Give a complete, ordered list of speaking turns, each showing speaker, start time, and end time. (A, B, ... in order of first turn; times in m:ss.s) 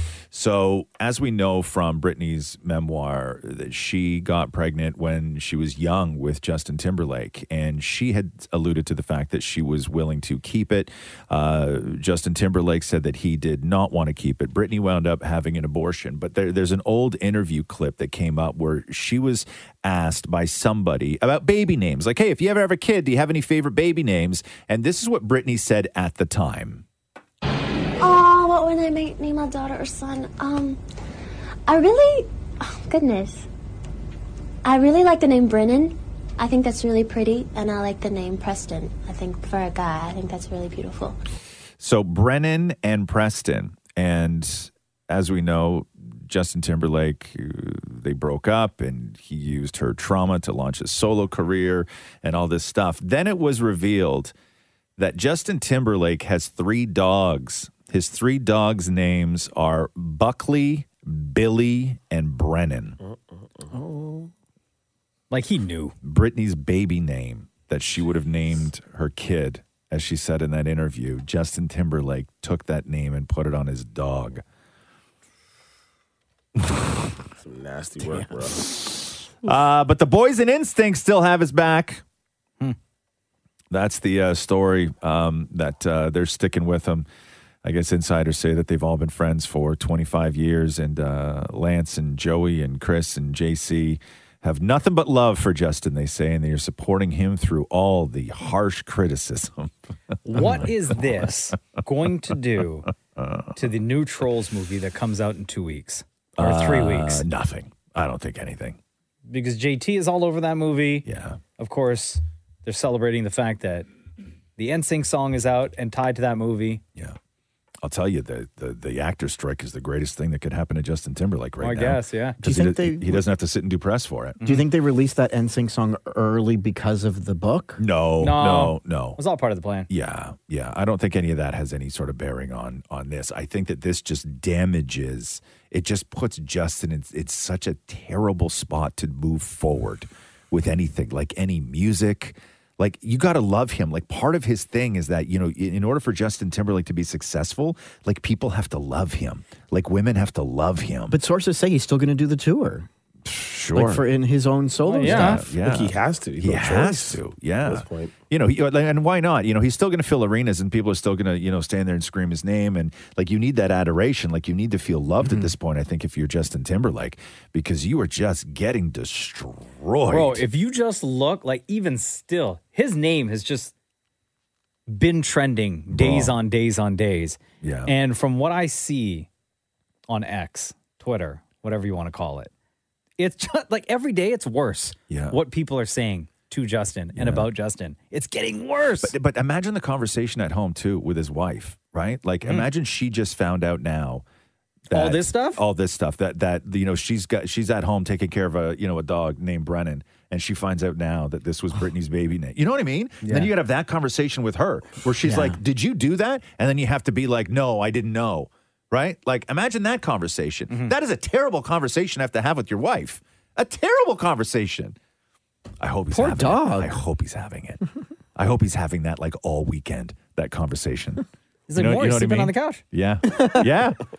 0:00.3-0:26.8 A
0:28.0-0:30.8 B
0:31.7-0:33.5 B
0:34.6-0:41.2 B
0:41.8-0:54.3 A
0:55.0-1:03.0 A
1:03.8-1:04.2 C
1:05.3-1:05.9 D
1:06.0-1:14.4 A
1:16.6-1:17.0 A
1:17.4-1:18.7 C
1:19.4-1:22.0 A
1:23.7-1:27.1 A
1:27.6-1:39.7 A
1:40.2-1:42.9 D
1:40.3-1:41.3 A
1:43.2-1:43.5 A
1:43.6-1:47.2 D
1:46.4-1:48.8 A
1:49.3-1:51.0 D
1:51.0-1:51.4 A
1:51.6-1:53.9 D
1:54.6-1:56.8 D
1:57.8-2:04.4 A
2:01.6-2:02.4 D
2:02.4-2:03.3 E
2:04.4-2:04.7 D
2:04.4-2:07.8 E
2:07.8-2:09.2 A
2:08.2-2:09.9 D
2:09.9-2:31.2 A
2:31.1-2:32.9 E
2:33.2-2:34.0 A
2:33.7-2:35.5 E
2:34.8-2:35.4 D
2:35.0-2:50.4 A
2:35.4-2:38.1 C
2:45.2-2:45.5 D
2:50.1-2:53.7 D
2:54.9-2:59.3 D
2:55.9-2:56.4 A
2:57.6-2:57.9 A
3:00.1-3:02.5 D
3:03.2-3:09.1 D
3:05.1-3:05.4 A
3:07.1-3:07.5 A
3:09.0-3:14.2 A
3:14.9-3:35.0 A
3:14.9-3:15.6 D
3:25.2-3:25.6 E
3:35.8-3:37.8 A
3:36.1-3:37.0 E
3:38.4-3:41.2 A
3:41.7-3:42.8 D
3:41.7-3:44.0 A